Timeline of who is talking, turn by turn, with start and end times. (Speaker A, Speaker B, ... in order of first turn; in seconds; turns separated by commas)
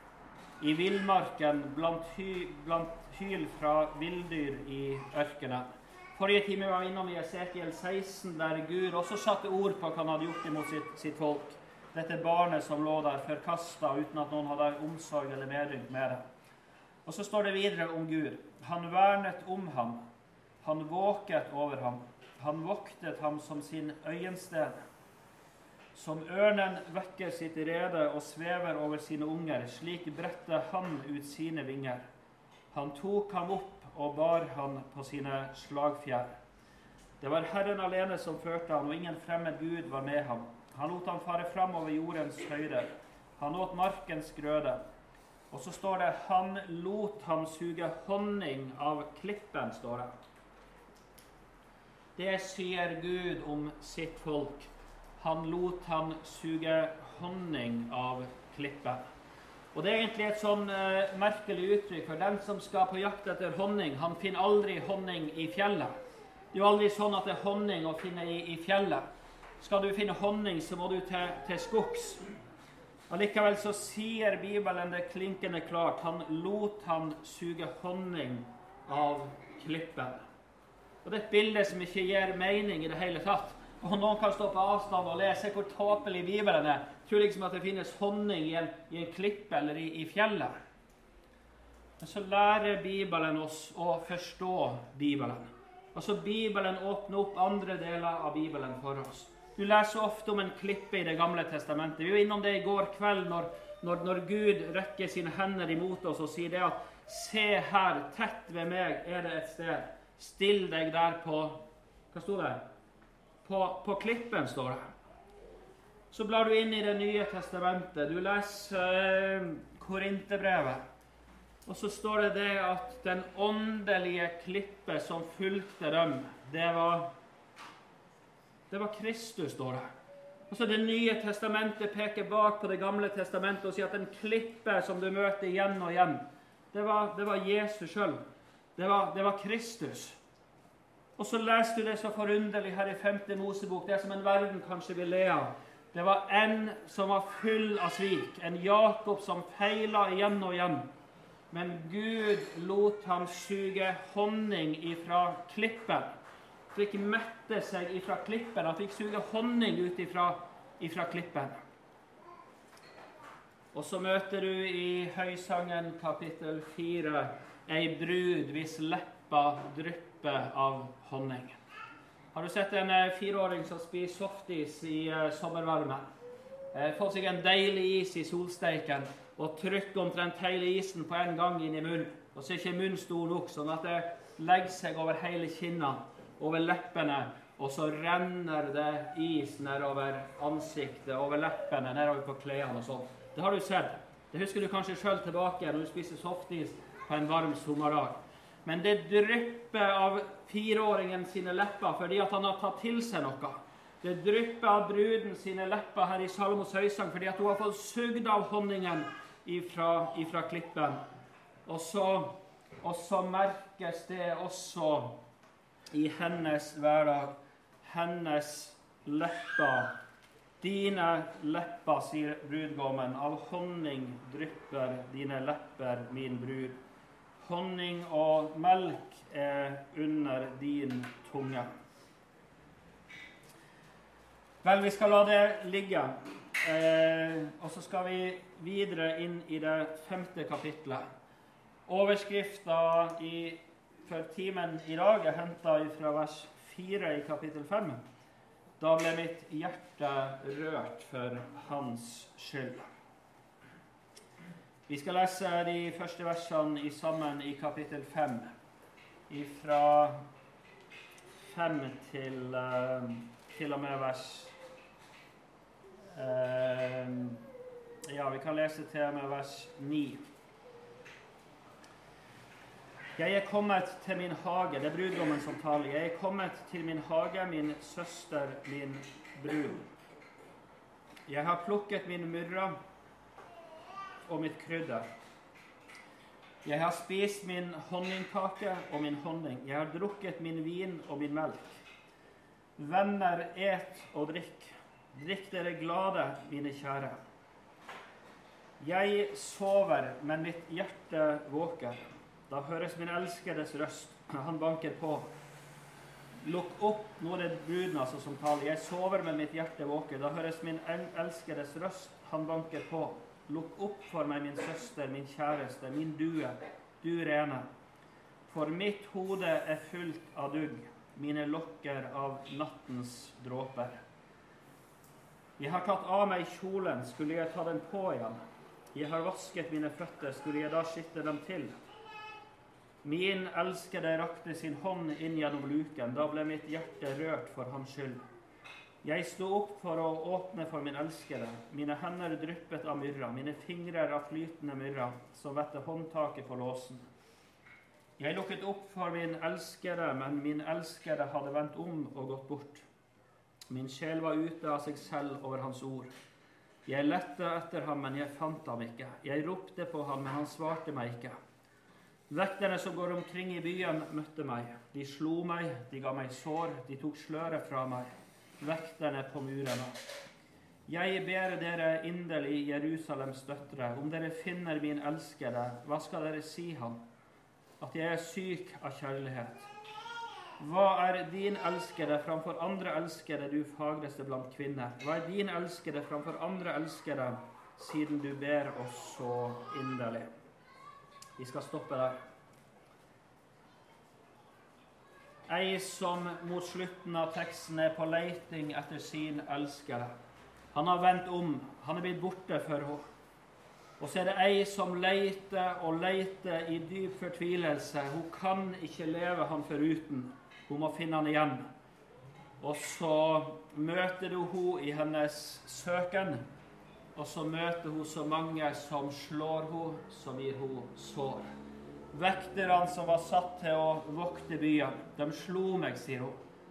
Speaker A: 0.6-16.2, Speaker A: 17.1-20.0, Speaker A: 20.6-24.8, Speaker A: 25.9-32.0, Speaker A: 32.7-36.3, Speaker A: 37.2-44.8, Speaker A: 45.5-50.1, Speaker A: 52.2-59.0, Speaker A: 59.7-65.9, Speaker A: 66.5-69.0, Speaker A: 69.6-72.2, Speaker A: 73.1-80.2, Speaker A: 81.0-90.6, Speaker A: 92.0-112.6, Speaker A: 113.4-114.8, Speaker A: 116.1-120.8, Speaker A: 121.7-127.1, Speaker A: 128.7-129.9, Speaker A: 130.5-138.2, Speaker A: 138.8-140.2, Speaker A: 141.2-150.9, Speaker A: 151.5-156.1, Speaker A: 156.7-161.6, Speaker A: 163.7-171.6, Speaker A: 172.3-176.1, Speaker A: 176.7-211.0, Speaker A: 211.7-215.2, Speaker A: 215.9-219.9, Speaker A: 220.6-226.8, Speaker A: 227.4-231.7, Speaker A: 234.6-241.1, Speaker A: 241.9-248.0, Speaker A: 248.8-252.9, Speaker A: 254.9-258.5, Speaker A: 259.3-260.2, Speaker A: 261.4-264.5, Speaker A: 266.1-267.4, Speaker A: 268.1-270.2, Speaker A: 273.2-279.9, Speaker A: 281.3-282.8, Speaker A: 284.3-285.1, Speaker A: 286.6-291.8, Speaker A: 292.8-297.2, Speaker A: 298.8-305.3, Speaker A: 306.4-317.7, Speaker A: 318.5-324.0, Speaker A: 325.6-328.4, Speaker A: 328.9-331.7, Speaker A: 333.0-338.2, Speaker A: 339.0-347.1, Speaker A: 348.2-352.9, Speaker A: 353.7-356.1, Speaker A: 356.9-361.4, Speaker A: 362.3-368.1, Speaker A: 368.6-369.9, Speaker A: 370.9-377.0, Speaker A: 377.8-379.7, Speaker A: 380.6-390.3, Speaker A: 391.4-392.2, Speaker A: 395.5-400.1, Speaker A: 400.7-403.1, Speaker A: 404.0-411.7, Speaker A: 412.6-416.4, Speaker A: 417.1-421.5, Speaker A: 422.1-426.4